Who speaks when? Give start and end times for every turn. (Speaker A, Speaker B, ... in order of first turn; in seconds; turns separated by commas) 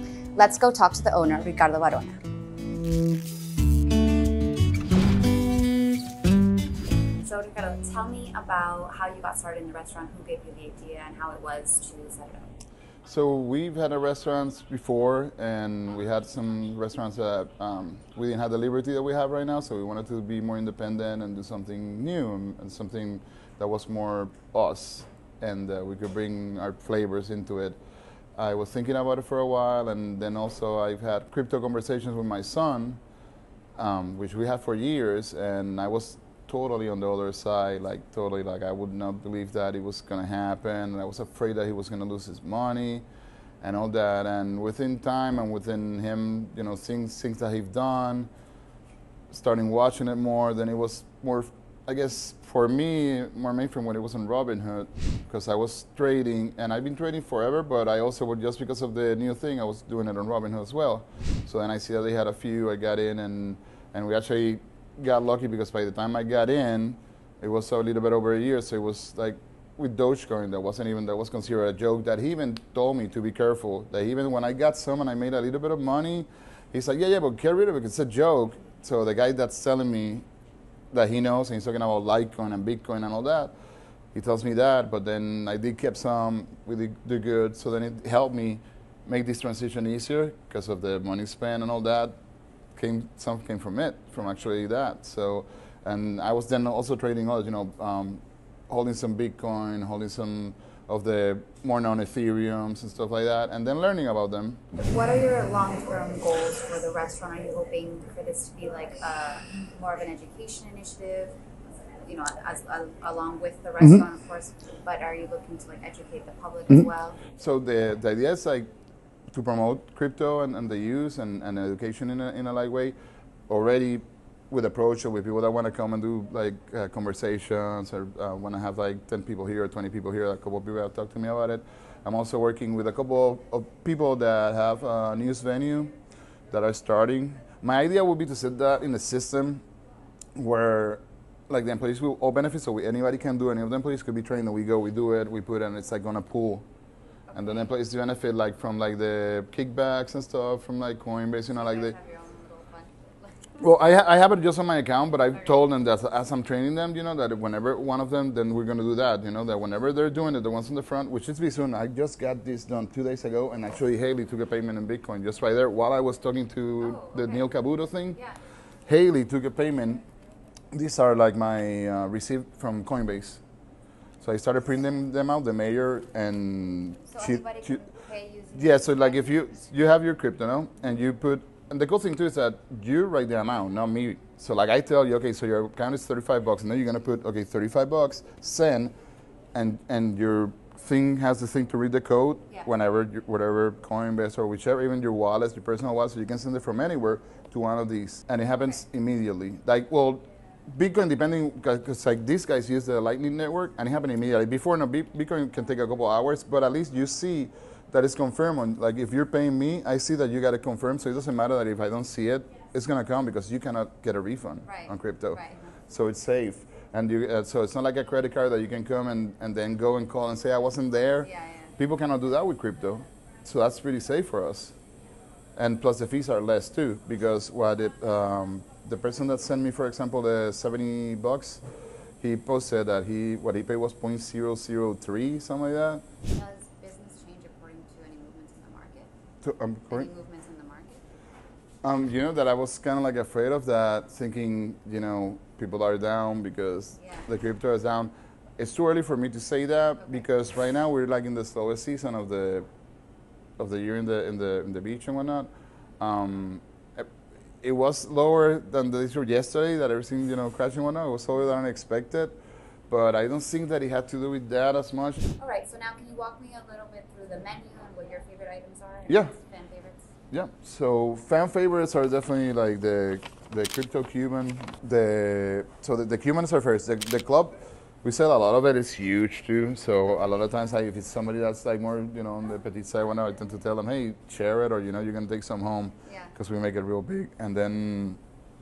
Speaker A: 0.3-2.2, Speaker A: 7.2-12.5, Speaker B: 13.1-27.8, Speaker B: 28.4-33.0, Speaker B: 33.8-43.0, Speaker B: 43.6-48.3, Speaker B: 49.3-80.2, Speaker B: 80.9-83.5, Speaker B: 84.1-92.2, Speaker B: 92.8-104.6, Speaker A: 104.7-111.4, Speaker A: 112.0-117.2, Speaker B: 117.3-118.7, Speaker B: 119.3-122.9, Speaker B: 123.5-135.9, Speaker B: 136.5-139.6, Speaker B: 140.3-146.6, Speaker A: 147.3-147.7, Speaker B: 147.3-151.9, Speaker A: 151.5-153.7, Speaker B: 153.6-168.2, Speaker A: 166.8-167.5, Speaker A: 168.1-168.4, Speaker B: 168.8-170.0, Speaker B: 170.7-173.4, Speaker B: 174.2-177.8, Speaker A: 177.1-179.6, Speaker B: 178.5-188.9, Speaker B: 189.5-224.8, Speaker A: 214.6-215.8, Speaker A: 221.2-221.7, Speaker B: 225.6-231.6, Speaker B: 232.2-236.0, Speaker A: 236.2-239.1, Speaker B: 239.4-240.1, Speaker A: 239.9-241.0, Speaker B: 241.8-252.7, Speaker A: 247.0-247.3, Speaker B: 253.6-257.1, Speaker B: 257.6-262.4, Speaker B: 262.9-265.2, Speaker A: 265.4-270.1, Speaker B: 270.3-288.2, Speaker A: 286.1-286.3